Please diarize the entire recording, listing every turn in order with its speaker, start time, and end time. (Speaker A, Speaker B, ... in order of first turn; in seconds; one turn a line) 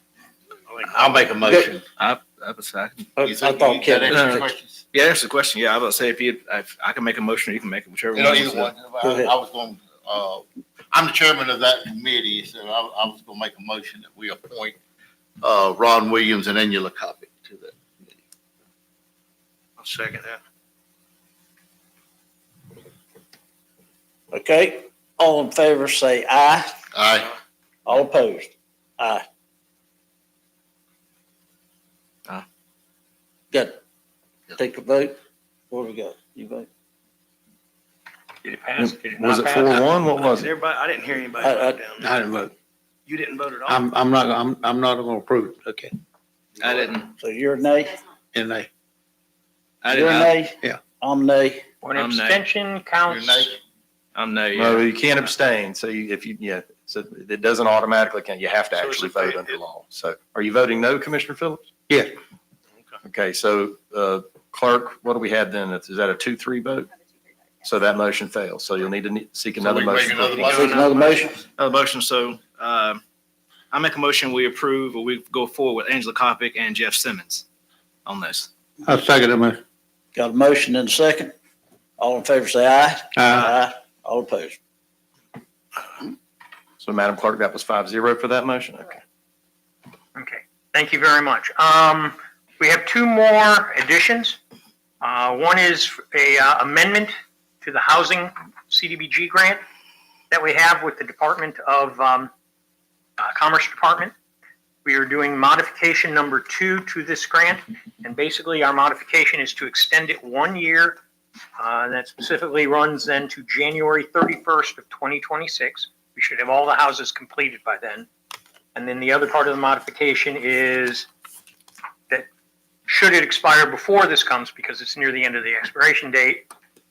Speaker A: 0.8-1.8
Speaker B: 1.4-1.7
Speaker C: 2.0-3.1
Speaker B: 3.2-4.5
Speaker A: 3.2-4.8
Speaker C: 4.1-8.7
Speaker A: 8.1-14.8
Speaker B: 9.0-9.3
Speaker A: 15.4-18.1
Speaker D: 19.8-20.4
Speaker B: 24.3-26.8
Speaker A: 26.9-27.3
Speaker B: 27.9-29.2
Speaker B: 33.5-33.8
Speaker B: 34.5-35.2
Speaker B: 35.7-36.7
Speaker E: 38.4-39.9
Speaker F: 38.8-40.5
Speaker D: 40.4-42.0
Speaker B: 41.4-41.9
Speaker G: 42.0-42.5
Speaker D: 43.1-43.7
Speaker G: 43.7-45.9
Speaker C: 46.6-47.1
Speaker B: 47.2-48.0
Speaker G: 48.3-48.7
Speaker C: 49.8-50.4
Speaker B: 49.9-51.6
Speaker E: 51.8-53.6
Speaker C: 52.0-52.4
Speaker A: 53.1-53.5
Speaker C: 54.1-54.9
Speaker F: 54.5-61.7
Speaker D: 59.1-59.4
Speaker F: 63.0-66.9
Speaker F: 67.6-71.0
Speaker A: 69.6-71.3
Speaker B: 70.5-71.4
Speaker C: 71.6-73.0
Speaker C: 73.7-77.5
Speaker C: 78.1-78.5
Speaker G: 78.9-79.6
Speaker B: 80.2-81.3
Speaker B: 82.0-84.6
Speaker G: 83.2-83.5
Speaker F: 86.8-89.0
Speaker E: 90.2-94.4
Speaker E: 95.0-99.6
Speaker E: 100.3-102.3
Speaker E: 103.2-104.1
Speaker E: 104.8-111.0
Speaker E: 111.6-118.1
Speaker E: 118.8-121.1
Speaker E: 122.9-126.5